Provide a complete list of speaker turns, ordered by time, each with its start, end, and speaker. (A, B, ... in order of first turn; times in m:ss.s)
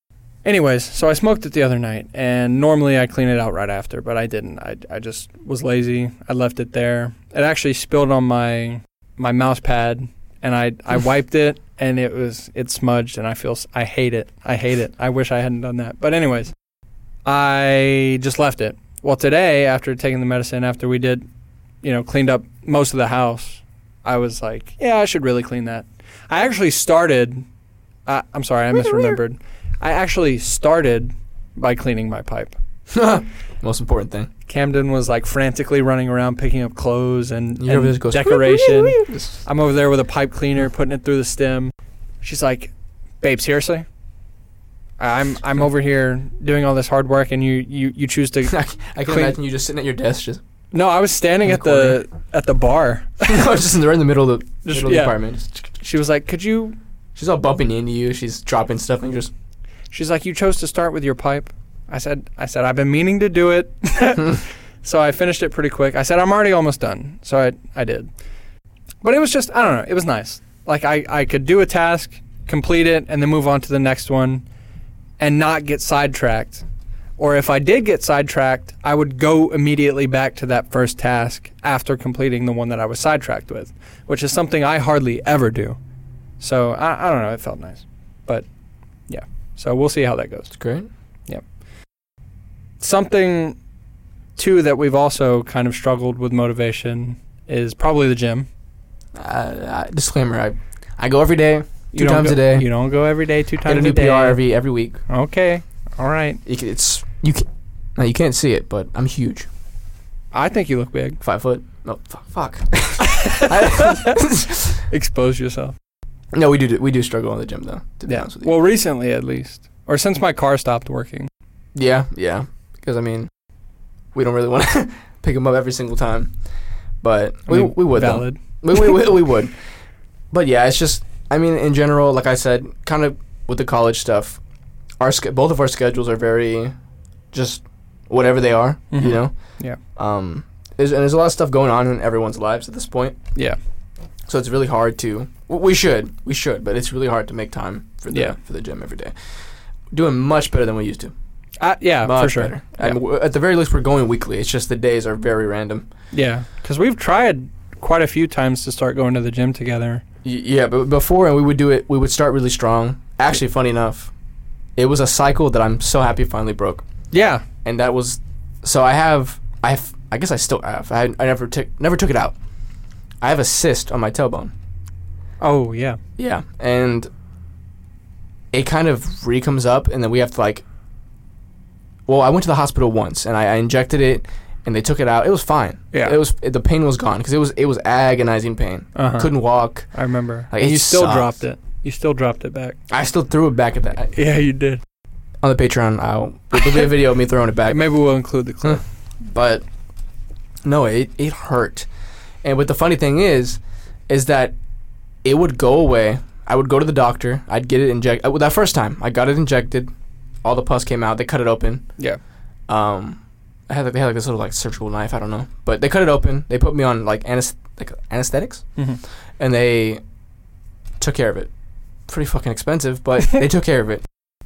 0:00.4-0:16.5 A
0:17.2-0:21.2 A
0:21.8-0:27.4 A
0:28.1-0:32.6 A
0:28.8-0:29.2 B
0:32.9-0:34.3 B
0:34.5-0:43.8 A
0:37.6-0:39.4 B
0:45.0-0:49.4 A
0:48.4-0:50.4 B
0:50.7-0:53.4 A
0:51.4-0:52.0 B
0:53.2-0:55.7 B
0:54.6-0:55.2 A
0:55.8-0:56.8 A
0:57.1-0:59.3 B
0:59.9-1:08.1 A
1:09.0-1:14.4 A
1:15.2-1:16.6 A
1:17.2-1:25.8 A
1:26.4-1:28.4 A
1:29.1-1:30.5 A
1:30.5-1:30.9 B
1:32.8-1:33.6 A
1:34.4-1:38.5 A
1:39.1-1:42.7 B
1:41.9-1:44.4 A
1:43.6-1:45.0 B
1:45.1-1:46.4 A
1:46.4-1:49.5 B
1:50.3-1:51.2 A
1:51.2-1:54.8 B
1:53.0-1:54.3 A
1:54.9-1:55.8 A
1:56.3-1:58.5 B
1:58.1-2:01.3 A
2:01.7-2:03.3 B
2:04.1-2:06.3 B
2:07.0-2:09.5 B
2:07.5-2:09.0 A
2:10.3-2:14.4 B
2:15.0-2:16.7 B
2:17.3-2:19.3 B
2:18.9-2:19.8 A
2:20.0-2:23.2 B
2:24.3-2:29.1 B
2:29.9-2:31.1 B
2:31.6-2:33.0 A
2:32.0-2:35.9 B
2:36.1-2:40.0 A
2:40.2-2:44.1 B
2:44.8-2:46.8 B
2:47.1-2:47.4 A
2:47.6-2:52.4 B
2:53.2-2:54.5 B
2:55.4-2:56.0 A
2:56.2-2:57.1 B
2:58.5-3:00.6 B
3:02.1-3:09.9 B
3:05.9-3:06.2 A
3:09.0-3:09.3 A
3:09.9-3:12.8 A
3:10.5-3:11.4 B
3:12.9-3:14.1 B
3:14.1-3:14.8 A
3:15.4-3:17.8 B
3:17.7-3:18.8 A
3:18.6-3:19.6 B
3:20.6-3:21.9 B
3:22.4-3:24.5 B
3:25.2-3:29.9 B
3:30.4-3:31.8 B
3:32.7-3:38.6 B
3:39.4-3:40.0 B
3:41.0-3:41.5 B
3:42.1-3:44.0 B